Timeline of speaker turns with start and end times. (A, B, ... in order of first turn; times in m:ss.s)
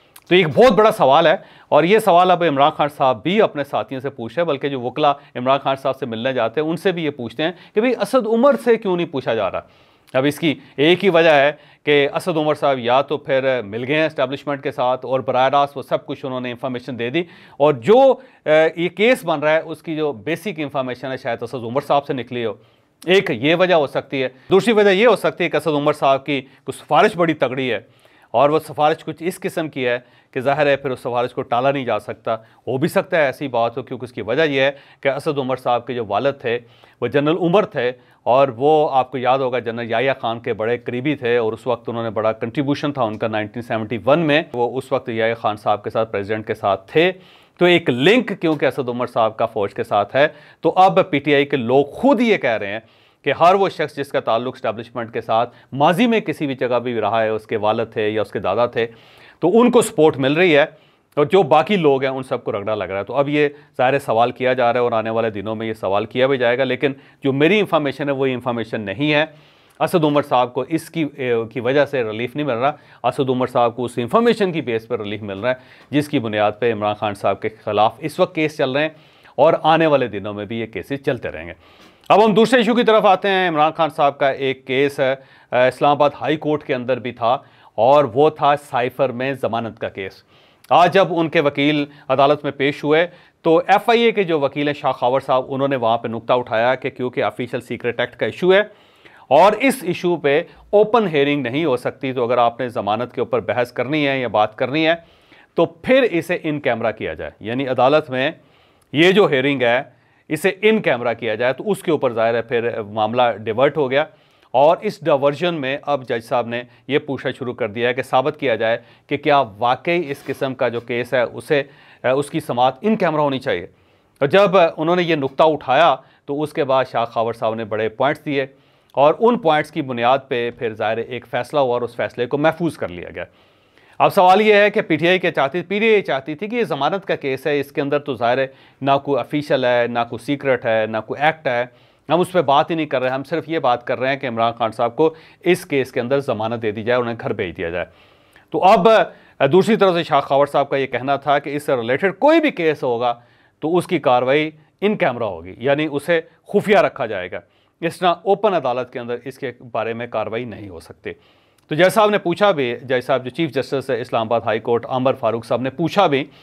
0:00.3-1:21.6 A
1:22.1-1:38.7 A
1:39.3-1:45.0 A
1:45.6-1:48.4 A
1:48.9-2:03.7 A
2:04.2-2:13.3 A
2:14.0-2:27.9 A
2:28.5-2:41.2 A
2:41.7-2:46.3 A